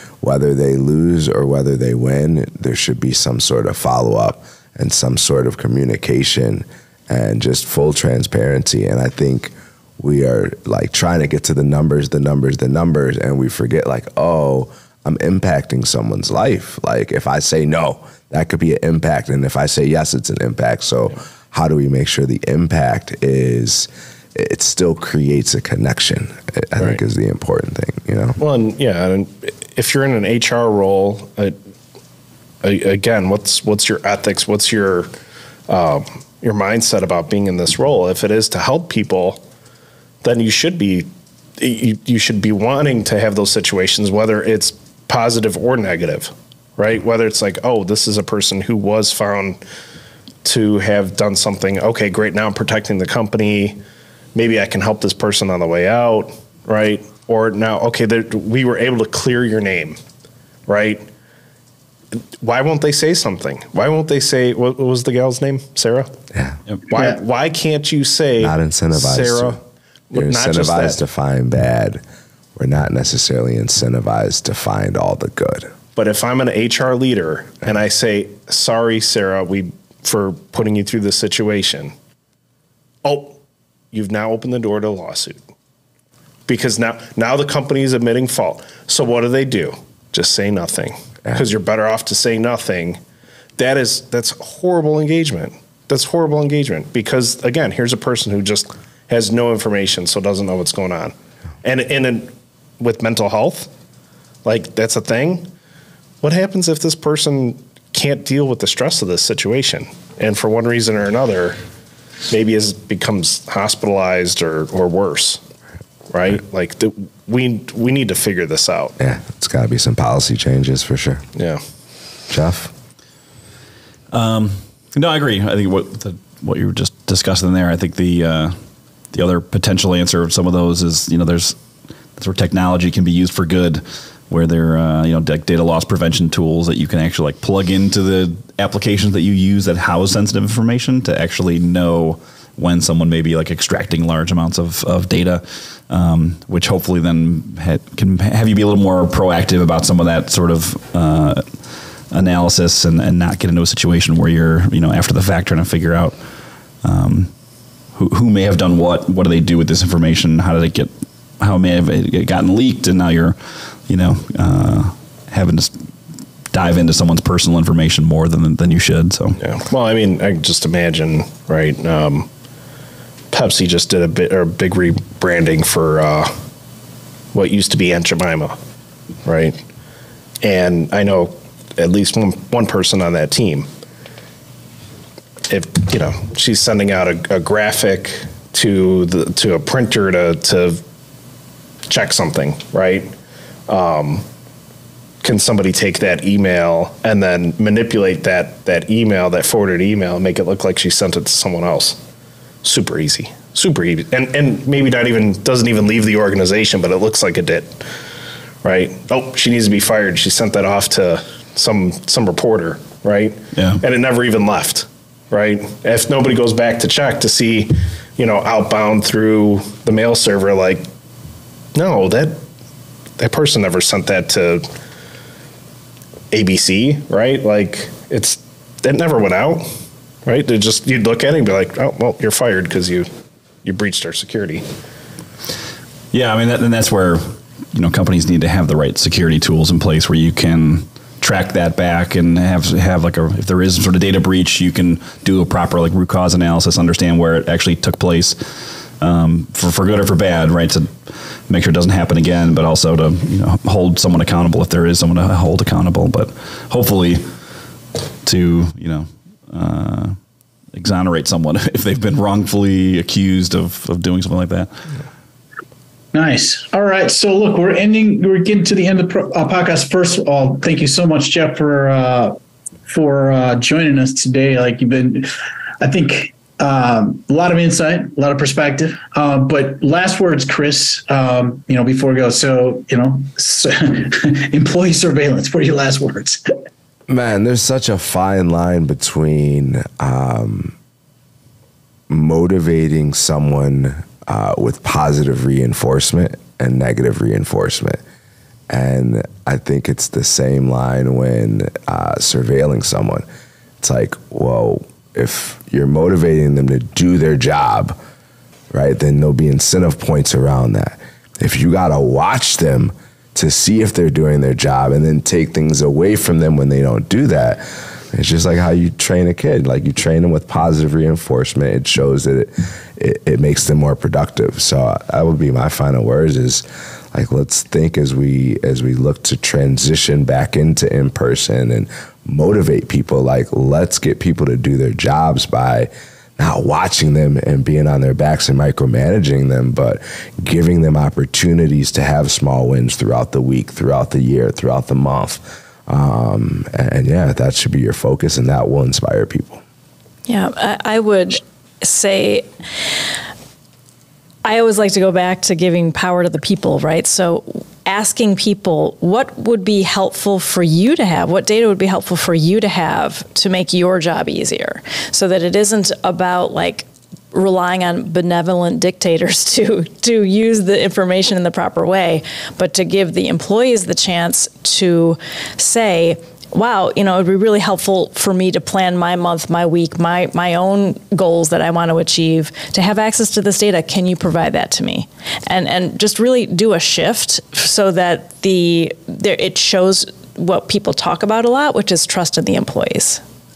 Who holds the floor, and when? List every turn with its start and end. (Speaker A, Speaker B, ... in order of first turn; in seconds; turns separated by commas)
Speaker A: 0.2-28.4, Speaker B: 28.4-31.6, Speaker B: 32.6-35.1, Speaker B: 35.7-39.4, Speaker B: 40.2-49.6, Speaker B: 50.4-53.8, Speaker B: 54.4-60.0, Speaker B: 60.7-61.1, Speaker B: 62.1-66.1, Speaker A: 66.3-66.6, Speaker B: 66.9-69.6, Speaker A: 68.4-69.6, Speaker B: 70.1-71.0, Speaker A: 70.1-72.0, Speaker A: 72.6-75.7, Speaker B: 76.0-81.9, Speaker B: 83.0-83.4, Speaker B: 83.9-85.4, Speaker B: 86.5-93.0, Speaker B: 93.6-103.7, Speaker B: 104.5-105.5, Speaker B: 106.2-111.6, Speaker B: 112.3-115.4, Speaker B: 116.1-119.0, Speaker A: 119.0-121.2, Speaker B: 121.3-121.6, Speaker A: 122.3-122.7, Speaker C: 124.1-128.6, Speaker C: 129.1-131.6, Speaker C: 132.2-151.6, Speaker C: 152.1-156.2, Speaker C: 156.8-157.3, Speaker C: 157.9-165.9, Speaker C: 166.5-169.4, Speaker B: 169.4-172.3, Speaker B: 173.3-176.4, Speaker B: 177.3-178.6, Speaker B: 179.2-179.6, Speaker B: 180.4-183.7, Speaker B: 185.5-190.8, Speaker B: 191.9-193.1, Speaker B: 193.7-194.3, Speaker B: 195.2-202.0, Speaker B: 202.6-207.9, Speaker B: 208.6-220.9, Speaker C: 213.5-213.8, Speaker B: 221.8-222.4, Speaker B: 223.2-224.7, Speaker B: 226.3-229.7, Speaker B: 230.2-233.1, Speaker B: 233.6-234.7, Speaker C: 236.1-248.4, Speaker C: 249.0-250.9, Speaker C: 251.5-257.3, Speaker C: 258.2-260.2, Speaker C: 260.7-264.8, Speaker D: 266.1-272.4, Speaker D: 272.9-275.3, Speaker D: 275.8-286.4, Speaker A: 287.1-290.8, Speaker A: 292.1-298.0, Speaker A: 298.7-303.2, Speaker A: 303.8-308.0, Speaker A: 308.7-349.6, Speaker E: 350.3-352.5, Speaker E: 354.4-393.2